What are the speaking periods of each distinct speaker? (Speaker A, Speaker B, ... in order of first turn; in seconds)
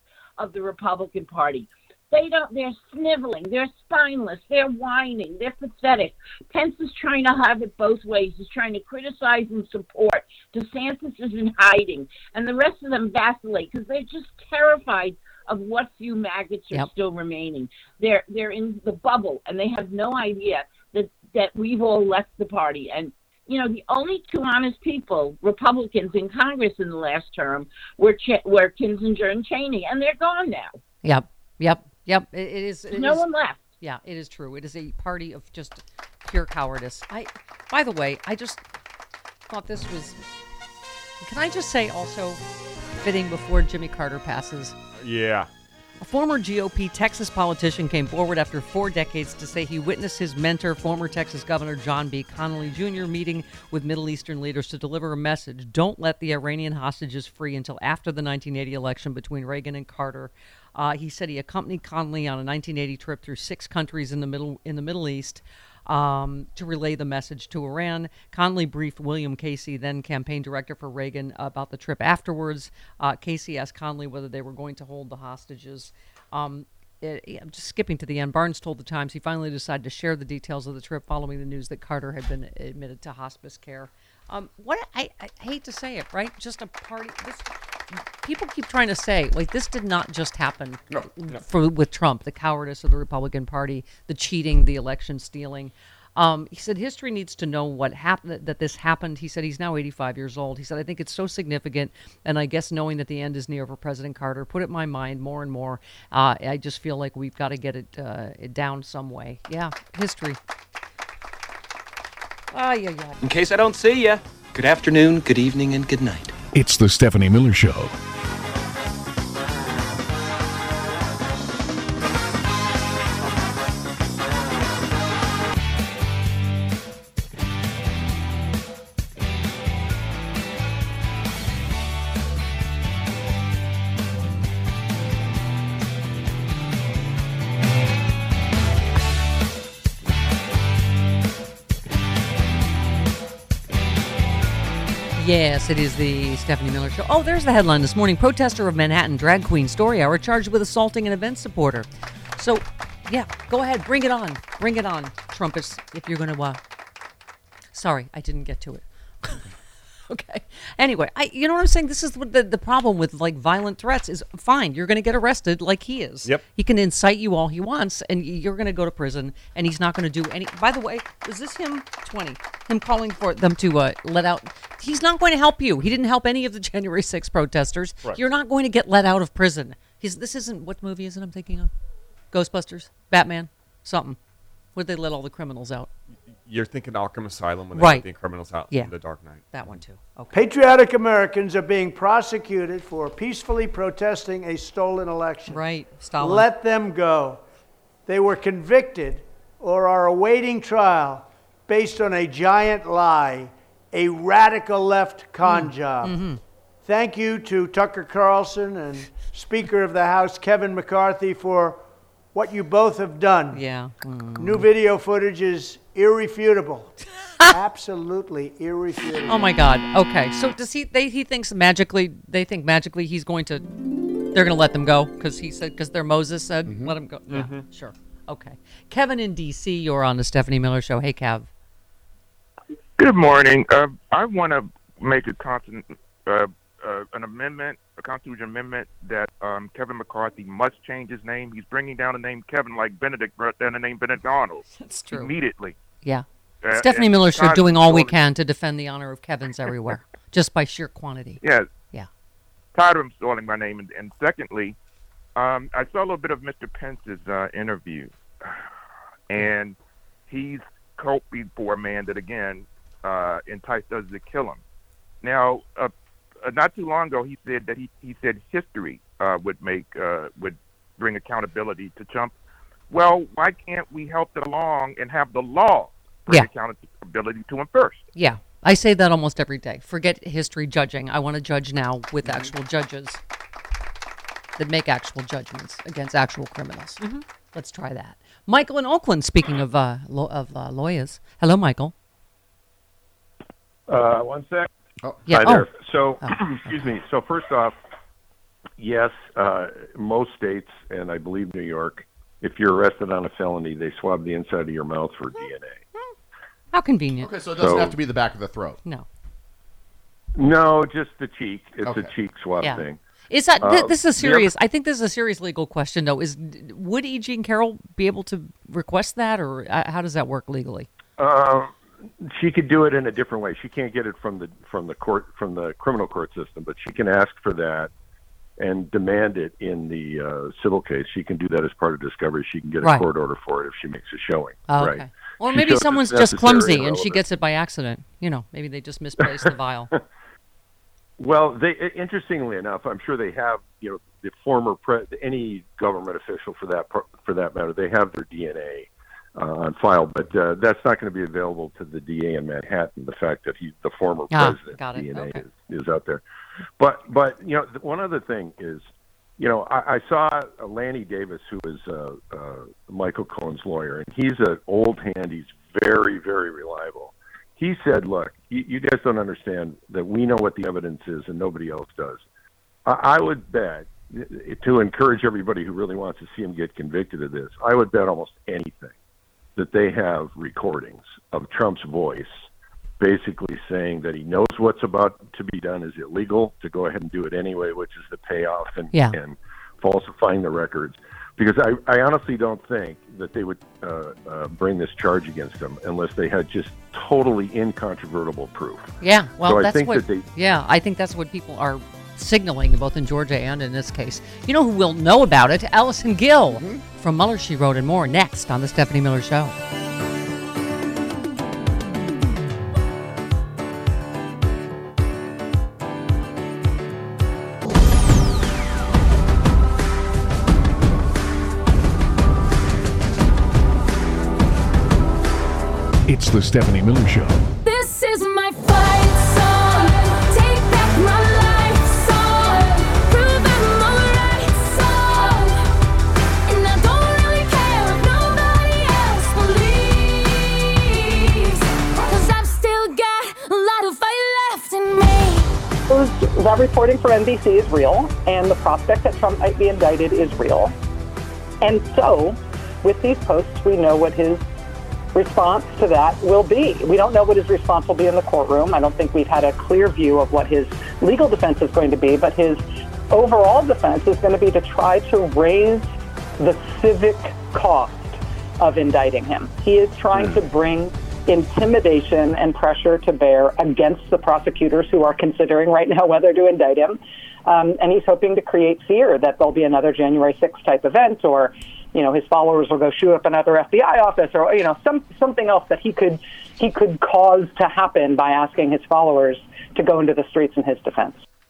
Speaker A: 0.4-30.8, 32.9-33.7
Speaker B: 31.0-33.2, 33.8-38.6, 39.5-40.2, 41.2-42.4, 43.0-44.8, 46.0-110.4, 112.5-113.2, 145.2-151.9, 152.4-156.6, 157.7-159.5, 160.1-181.7, 182.3-184.2, 184.8-185.9, 187.8-188.1, 189.5-190.4, 195.5-196.5, 205.4-206.4, 213.5-214.7, 219.3-223.7, 224.3-231.5, 244.8-245.3, 246.0-251.4, 278.1-283.2, 284.6-291.9, 295.3-295.7, 296.2-297.0, 306.7-307.3, 312.6-320.9, 332.8-333.1, 334.7-339.9, 354.3-355.5, 388.9-389.2, 399.0-409.6
Speaker C: 45.0-45.5, 186.3-189.8
Speaker D: 113.2-116.3
Speaker E: 116.5-117.9, 426.1-427.4
Speaker F: 190.3-195.7, 196.2-197.4, 198.1-206.2, 206.8-213.7, 214.4-219.6
Speaker G: 226.7-227.0, 282.2-282.5, 307.2-308.8, 311.8-312.1, 406.5-406.8
Speaker H: 233.0-245.7, 246.6-248.2, 251.4-251.7, 252.8-254.8, 255.4-258.1, 259.3-259.8, 260.3-264.6, 265.2-265.9, 266.4-272.3, 272.9-278.0
Speaker I: 293.9-294.5, 295.4-297.7, 298.8-305.8, 307.6-307.9, 310.4-313.0, 313.6-314.4, 321.2-321.6, 322.3-327.9, 328.6-337.2, 341.2-348.9, 349.4-356.2, 356.8-358.8, 359.4-372.2, 372.9-373.9, 374.5-378.9, 379.6-382.3, 383.0-398.9, 399.4-400.2
Speaker J: 427.6-435.6, 436.5-445.5
Speaker K: 445.9-450.7, 451.6-454.4, 455.1-491.2